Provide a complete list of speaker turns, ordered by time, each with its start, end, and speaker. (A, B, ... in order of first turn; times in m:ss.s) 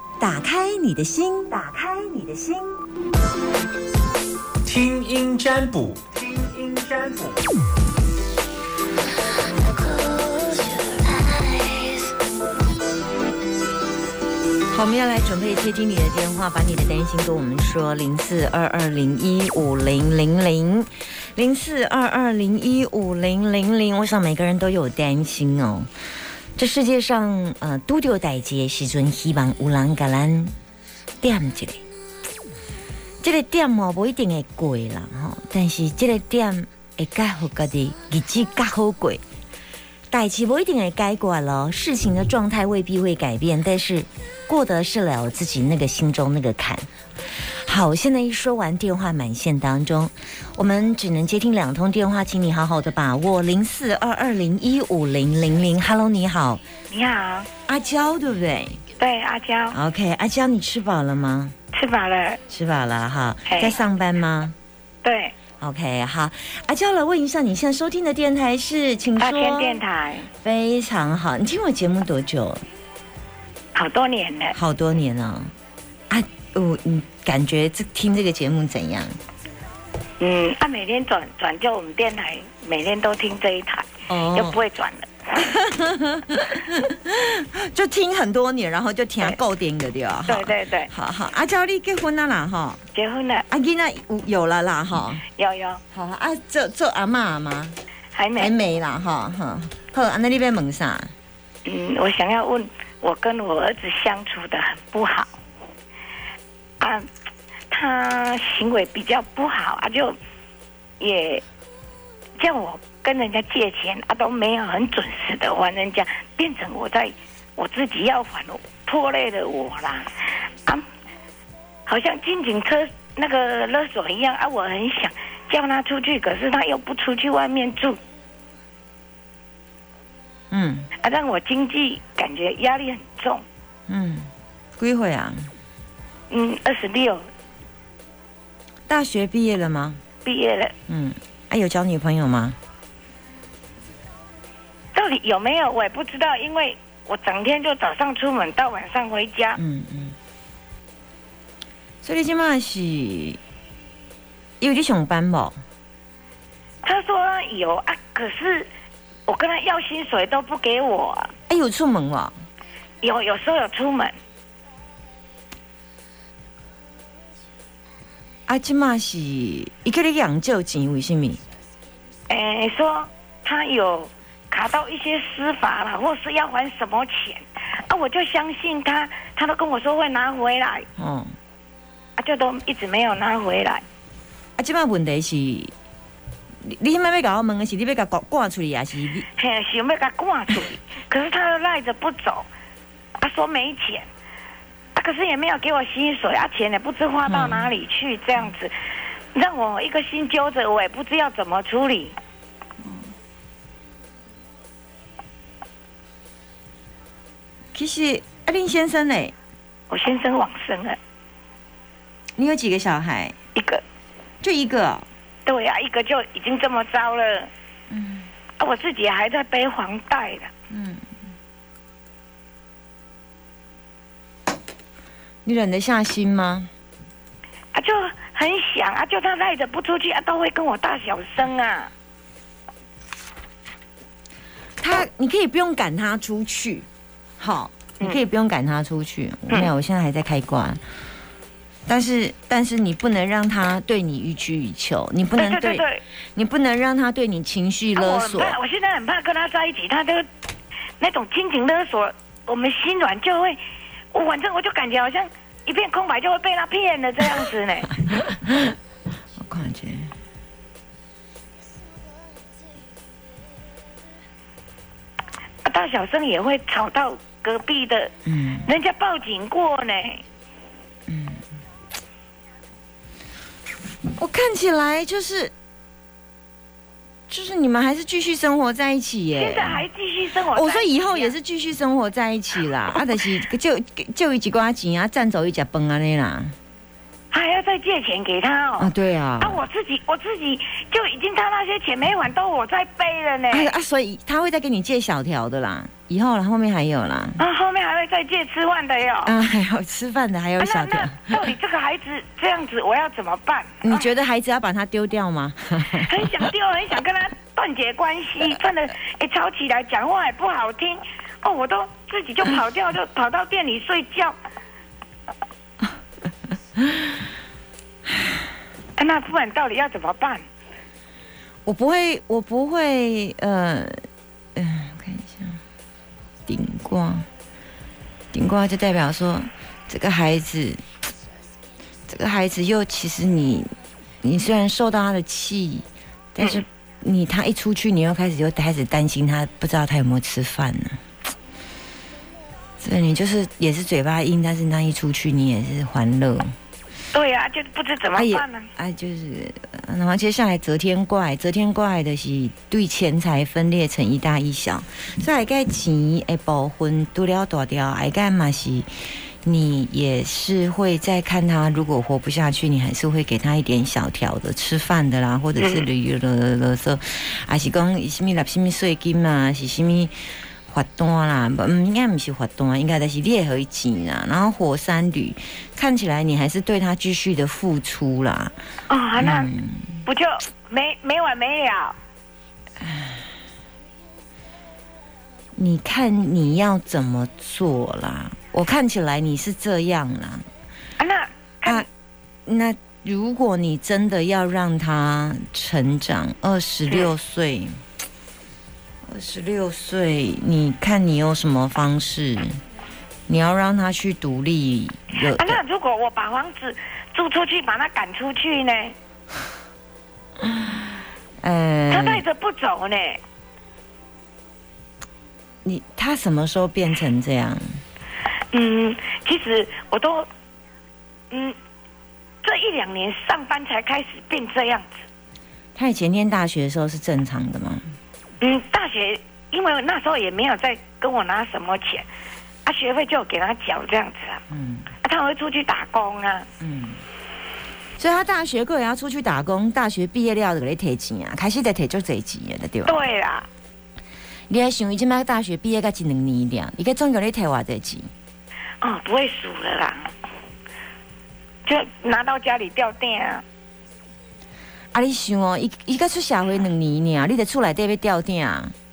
0:00.2-0:02.8 A
0:04.6-0:07.4 B
0:14.7-0:25.9 A
0:26.6-0:30.5 A
0:31.2-0:31.8 A
0:33.2-0:39.2 A
0:40.1-0:46.9 A
0:47.6-0:56.6 A
0:56.9-0:57.5 C
0:57.7-0:58.8 A
0:59.0-0:59.8 C
0:59.7-1:01.5 A
1:01.7-1:02.4 C
1:02.5-1:04.5 A
1:03.5-1:03.8 C
1:05.0-1:05.3 C
1:05.6-1:09.8 A
1:09.2-1:10.3 C
1:10.3-1:12.6 A
1:13.7-1:14.6 C
1:14.5-1:15.5 A
1:16.1-1:19.1 A
1:20.2-1:25.5 C
1:24.1-1:24.6 A
1:25.4-1:32.8 A
1:30.3-1:30.9 C
1:32.9-1:33.4 C
1:33.5-1:35.2 A
1:35.4-1:35.8 C
1:35.9-1:37.7 A
1:38.1-1:38.5 C
1:38.4-1:41.1 A
1:41.6-1:45.3 C
1:46.8-1:47.1 C
1:47.7-1:50.2 C
1:51.0-1:51.4 C
1:52.4-2:00.1 C
2:01.8-2:08.0 C
2:10.5-2:10.9 A
2:11.0-2:13.4 C
2:13.9-2:15.5 A
2:16.3-2:17.2 C
2:18.9-2:20.0 A
2:20.2-2:20.7 C
2:20.9-2:22.6 A
2:24.9-2:29.6 C
2:29.6-2:30.2 A
2:32.0-2:33.4 A
2:34.6-2:35.6 A
2:36.8-2:38.7 C
2:39.3-2:41.3 C
2:41.5-2:42.3 A
2:43.0-2:44.1 C
2:48.5-2:51.4 A
2:52.3-3:00.9 C
3:01.0-3:01.3 A
3:02.2-3:03.8 C
3:04.6-3:05.7 A
3:06.6-3:09.3 A
3:09.3-3:12.5 C
3:13.2-3:14.1 C
3:14.9-3:18.7 C
3:17.2-3:17.7 A
3:19.3-3:22.1 C
3:27.7-3:29.3 A
3:29.9-3:31.0 C
3:32.4-3:33.3 A
3:33.6-3:33.8 C
3:34.4-3:35.0 A
3:35.4-3:37.5 C
3:37.9-3:38.3 A
3:38.6-3:40.5 C
3:40.7-3:41.0 A
3:45.4-3:46.7 A
3:47.7-3:51.9 C
3:54.8-3:56.8 A
3:57.4-4:00.8 A
4:01.9-4:05.8 A
4:05.4-4:06.0 C
4:06.4-4:08.6 A
4:08.0-4:10.2 C
4:11.0-4:13.6 C
4:14.1-4:17.9 C
4:18.0-4:18.8 A
4:19.4-4:20.1 A
4:25.6-4:28.1 C
4:28.2-4:28.7 A
4:28.6-4:30.2 C
4:31.1-4:31.4 A
4:34.2-4:35.5 A
4:37.3-4:39.8 A
4:39.4-4:41.3 C
4:40.5-4:46.5 A
4:47.3-4:53.7 C
4:48.8-4:49.6 A
4:53.5-4:57.4 A
4:57.4-4:59.3 C
4:59.2-5:01.5 A
5:00.6-5:04.0 C
5:03.8-5:06.1 A
5:05.9-5:14.4 C
5:19.0-5:20.4 C
5:21.6-5:24.0 A
5:24.6-5:25.6 A
5:26.5-5:27.2 A
5:28.3-5:30.8 A
5:32.1-5:33.7 A
5:34.2-5:35.8 A
5:36.4-5:41.0 A
5:42.8-5:46.5 A
5:47.1-5:48.7 C
5:48.1-5:58.9 A
5:59.4-6:10.1 A
6:05.6-6:05.8 C
6:10.7-6:18.5 A
6:18.9-6:19.5 C
6:19.2-6:20.0 A
6:20.0-6:22.0 C
6:22.8-6:23.2 A
6:25.6-6:30.4 A
6:31.0-6:31.9 C
6:32.4-6:37.7 A
6:39.1-6:42.6 A
6:43.3-6:45.6 A
6:45.2-6:49.0 C
6:51.4-6:52.2 A
6:51.9-6:53.2 C
6:55.6-6:57.6 A
6:58.5-7:00.3 C
7:01.3-7:01.6 C
7:02.4-7:05.0 C
7:05.8-7:07.8 A
7:08.4-7:12.0 C
7:12.6-7:14.4 C
7:14.5-7:14.9 A
7:15.0-7:16.5 C
7:16.6-7:17.0 A
7:18.0-7:23.0 A
7:22.8-7:23.5 C
7:24.5-7:28.1 A
7:28.8-7:30.1 C
7:31.6-7:33.4 C
7:34.9-7:38.7 A